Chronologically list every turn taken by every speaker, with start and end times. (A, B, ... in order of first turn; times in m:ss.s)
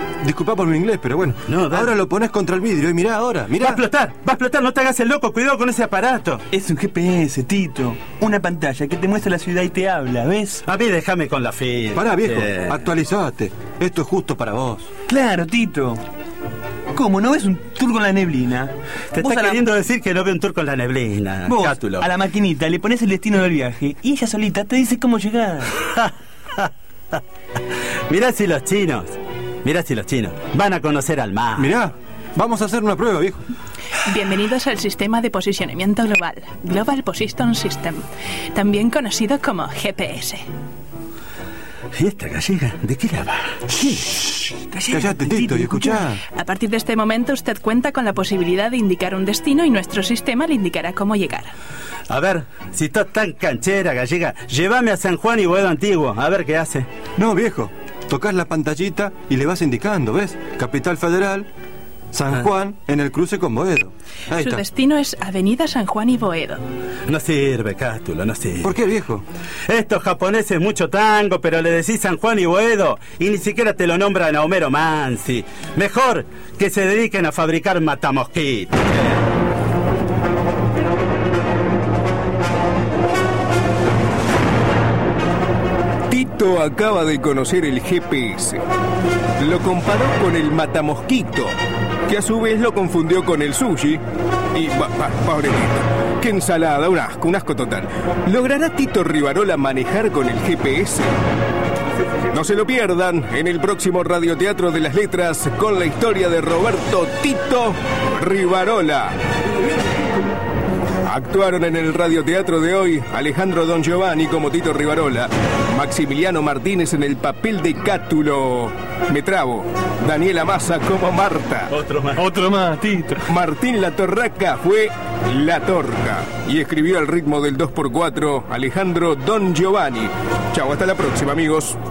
0:00.2-0:03.8 A
0:01.5-0:01.9 B
0:03.6-0:06.4 B
0:06.5-0:10.6 C
0:10.7-0:12.8 B
0:12.0-0:14.9 A
0:15.1-0:16.0 C
0:16.9-0:19.6 C
0:19.1-0:22.1 B
0:21.5-0:25.8 C
0:25.9-0:26.7 B
0:28.1-0:29.1 B
0:29.6-0:31.7 B
0:31.6-0:33.4 A
0:34.0-0:40.4 D
0:42.0-0:44.1 B
0:44.7-0:45.5 C
0:44.9-0:46.2 A
0:46.3-0:51.5 D
0:52.1-0:56.9 B
0:57.2-1:01.5 A
1:02.1-1:04.6 A
1:04.3-1:06.6 D
1:07.1-1:08.7 B
1:08.6-1:09.2 A
1:09.7-1:19.2 B
1:26.1-1:28.6 E
1:29.4-1:31.6 E
1:32.1-1:34.0 E
1:34.5-1:41.1 E
1:42.3-1:49.2 E
1:51.0-2:01.7 E
2:01.7-2:02.3 B
2:02.2-2:03.2 C
2:03.3-2:11.8 E